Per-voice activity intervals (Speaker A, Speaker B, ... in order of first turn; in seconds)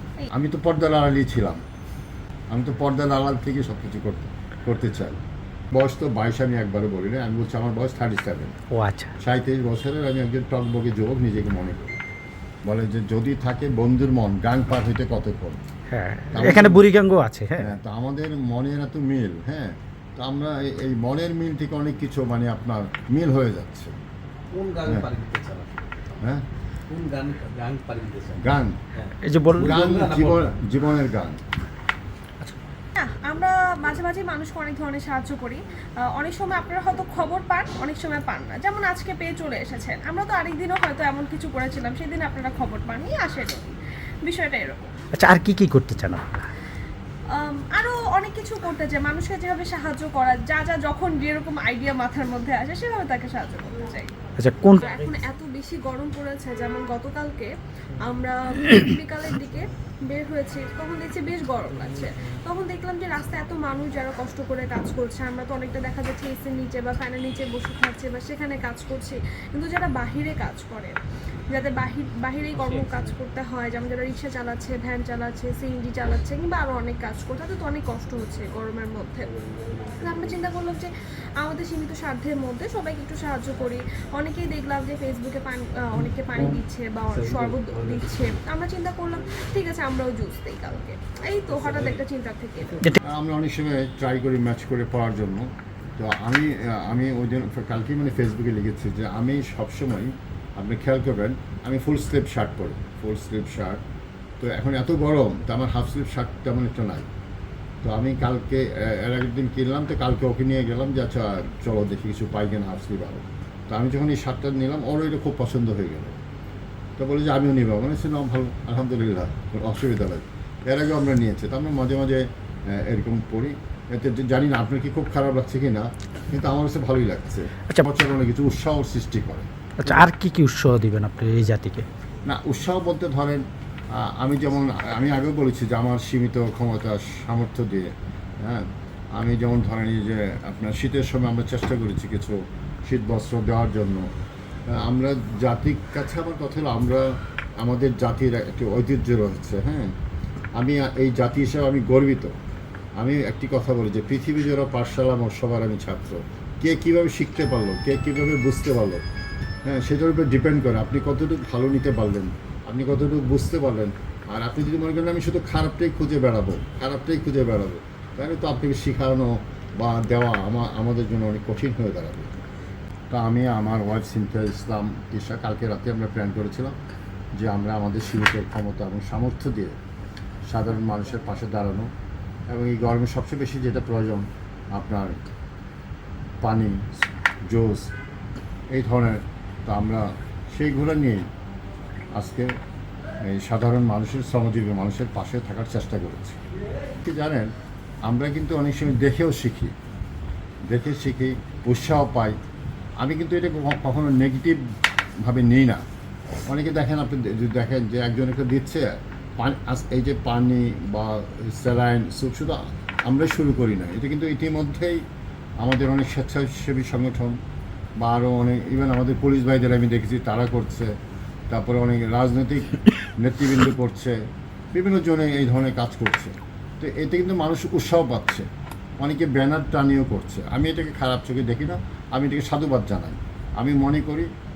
Speaker A: 0.3-1.6, 2.5-5.2, 5.7-8.6, 9.2-11.9, 12.7-15.6, 16.3-16.9, 17.6-23.9, 28.4-28.8, 29.6-31.4, 93.0-103.8, 104.4-107.1, 107.8-116.2, 117.0-129.9, 132.3-144.1, 144.7-147.1, 147.6-149.9, 150.6-152.3, 153.0-159.0, 159.7-172.3, 173.1-176.8, 177.4-179.8, 180.5-181.9, 182.5-185.2, 186.4-186.8, 187.5-187.9, 188.7-191.2, 192.2-192.5, 193.2-196.4, 197.0-197.5, 198.1-199.7, 200.7-202.4, 203.0-204.6, 205.2-205.8, 206.5-215.0, 215.6-217.4, 218.0-220.9, 221.5-224.2, 224.7-228.5, 229.0-234.3
Speaker B: 8.7-9.1, 15.9-17.7, 29.2-29.8, 45.1-46.4, 54.4-54.9, 129.8-131.9
Speaker C: 24.5-25.8, 26.9-30.5, 79.4-80.4, 87.1-88.4, 91.5-92.0
Speaker D: 33.0-44.9, 47.3-54.1, 54.8-70.9, 71.5-79.3, 80.0-92.9